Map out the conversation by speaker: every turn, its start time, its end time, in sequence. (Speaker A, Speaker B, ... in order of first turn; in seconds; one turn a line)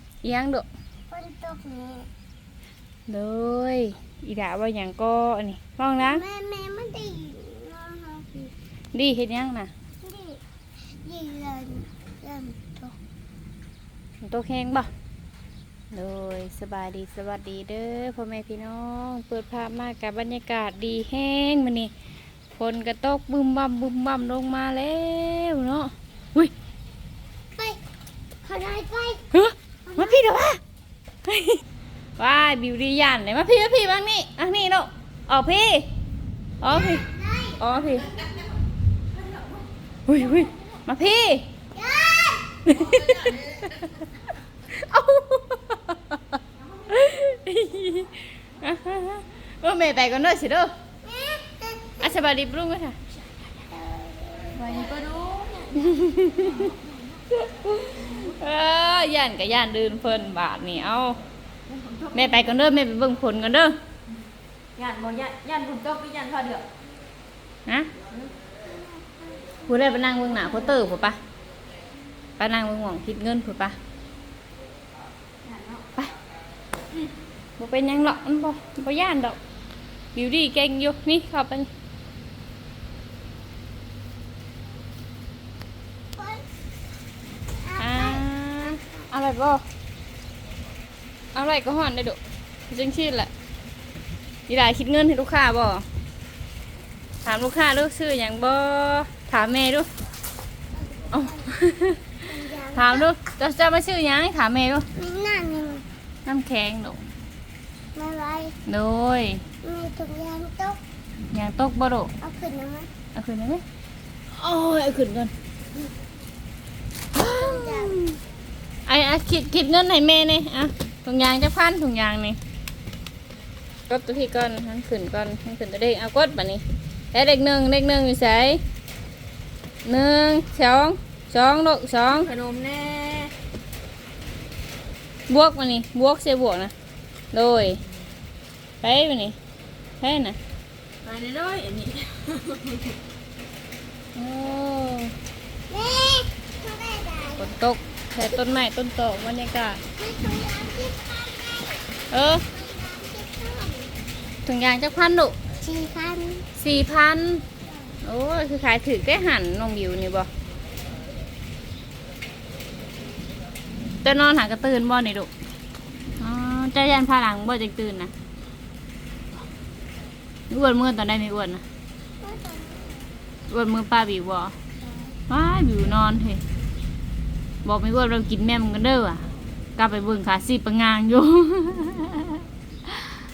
Speaker A: 0.2-0.7
Speaker B: 1.1-2.1
Speaker A: 3.1-6.2
Speaker B: 6.0-8.5
Speaker A: 8.9-9.7
Speaker B: 10.0-10.4
Speaker B: 11.0-12.9
Speaker A: 14.2-14.9
Speaker A: 15.9-21.9
Speaker A: 22.6-26.5
Speaker B: 28.4-29.2
Speaker A: 29.3-30.6
Speaker B: 29.9-30.1
Speaker A: 31.3-31.6
Speaker A: 32.2-35.9
Speaker A: 36.6-37.0
Speaker B: 36.7-37.5
Speaker A: 37.6-38.1
Speaker A: 40.1-41.5
Speaker B: 41.8-42.4
Speaker A: 42.7-43.6
Speaker A: 44.7-46.2
Speaker A: 46.9-50.7
Speaker B: 51.0-52.0
Speaker A: 52.0-53.0
Speaker B: 53.7-55.3
Speaker C: 54.5-55.7
Speaker A: 55.8-56.7
Speaker A: 57.3-61.2
Speaker B: 61.7-62.4
Speaker A: 62.1-63.8
Speaker C: 64.8-66.6
Speaker B: 64.8-66.6
Speaker A: 69.7-71.2
Speaker A: 72.4-73.8
Speaker B: 75.5-75.8
Speaker A: 77.6-79.4
Speaker A: 80.2-81.7
Speaker B: 87.7-88.2
Speaker A: 87.8-89.6
Speaker A: 91.3-92.2
Speaker A: 92.7-93.3
Speaker A: 94.5-95.8
Speaker A: 97.2-99.9
Speaker A: 101.1-102.1
Speaker B: 102.3-103.0
Speaker A: 102.7-104.9
Speaker B: 105.0-105.8
Speaker A: 106.2-107.0
Speaker B: 108.0-108.5
Speaker A: 108.7-109.4
Speaker B: 109.6-110.8
Speaker A: 111.3-112.1
Speaker B: 112.2-112.9
Speaker A: 113.1-113.6
Speaker A: 114.3-115.3
Speaker A: 117.2-118.2
Speaker B: 117.2-118.0
Speaker A: 118.9-122.4
Speaker A: 123.9-126.6
Speaker A: 127.1-128.6
Speaker A: 129.8-132.3
Speaker C: 132.3-133.3
Speaker A: 135.3-136.7
Speaker A: 137.3-137.8
Speaker A: 138.8-139.4
Speaker A: 140.0-140.4
Speaker C: 141.1-142.9
Speaker B: 141.1-141.7
Speaker A: 144.2-145.1
Speaker B: 145.7-147.5
Speaker A: 147.4-149.8
Speaker B: 150.0-151.8
Speaker A: 152.1-152.4
Speaker B: 152.5-153.9
Speaker A: 154.5-155.4
Speaker B: 155.6-156.5
Speaker A: 156.6-157.4
Speaker A: 158.0-160.3
Speaker A: 164.0-165.3
Speaker A: 166.2-168.1
Speaker A: 170.5-171.6
Speaker B: 172.2-173.1
Speaker A: 173.5-174.5
Speaker A: 175.3-176.4
Speaker A: 177.7-182.9